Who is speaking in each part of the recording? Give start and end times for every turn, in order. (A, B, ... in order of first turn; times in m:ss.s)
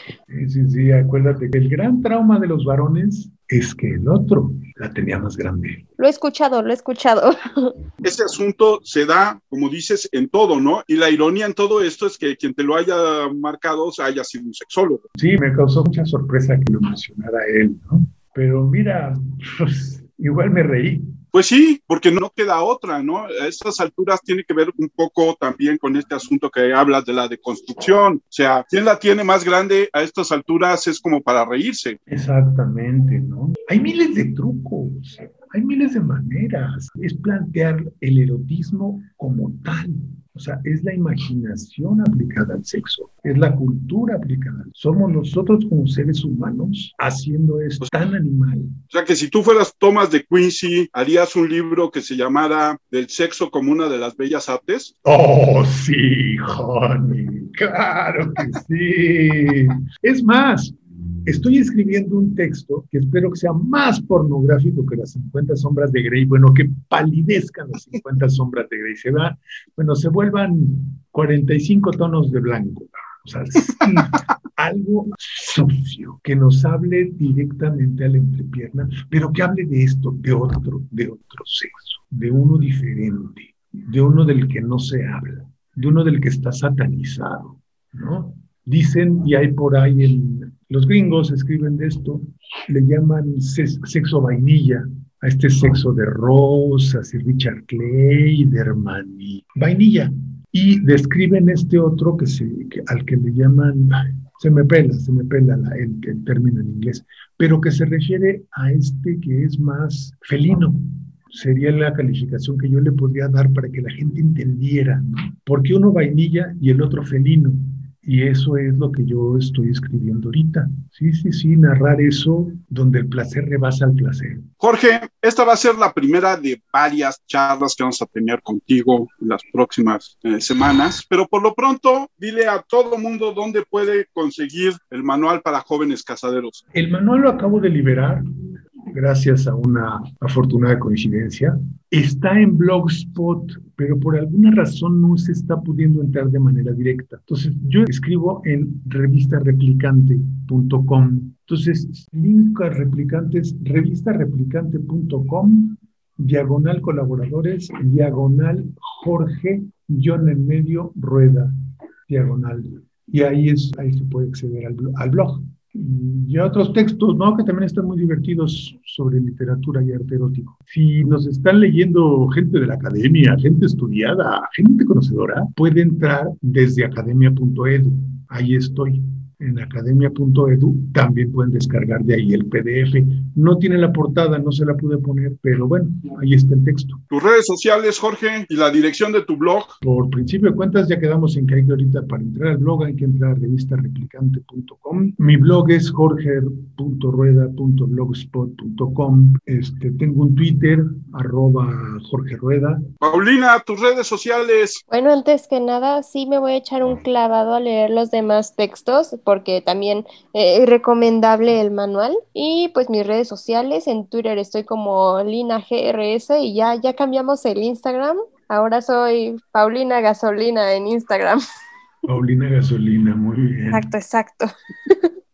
0:00.3-0:05.8 A
0:06.0-0:07.7 B
0:08.0-0:15.0 C
0:15.2-0:21.2 A
0:21.3-0:32.0 C
0:32.1-0:48.7 A
0:48.9-0:54.9 C
0:55.0-2:04.5 A
2:04.6-2:16.6 C
2:16.7-2:18.2 A
2:18.9-2:41.5 A
2:42.1-3:07.0 A
3:07.1-3:09.7 C
3:09.8-3:22.8 A
3:23.0-3:24.8 C
3:24.9-3:41.4 B
3:42.0-3:43.9 A
3:43.7-3:45.1 B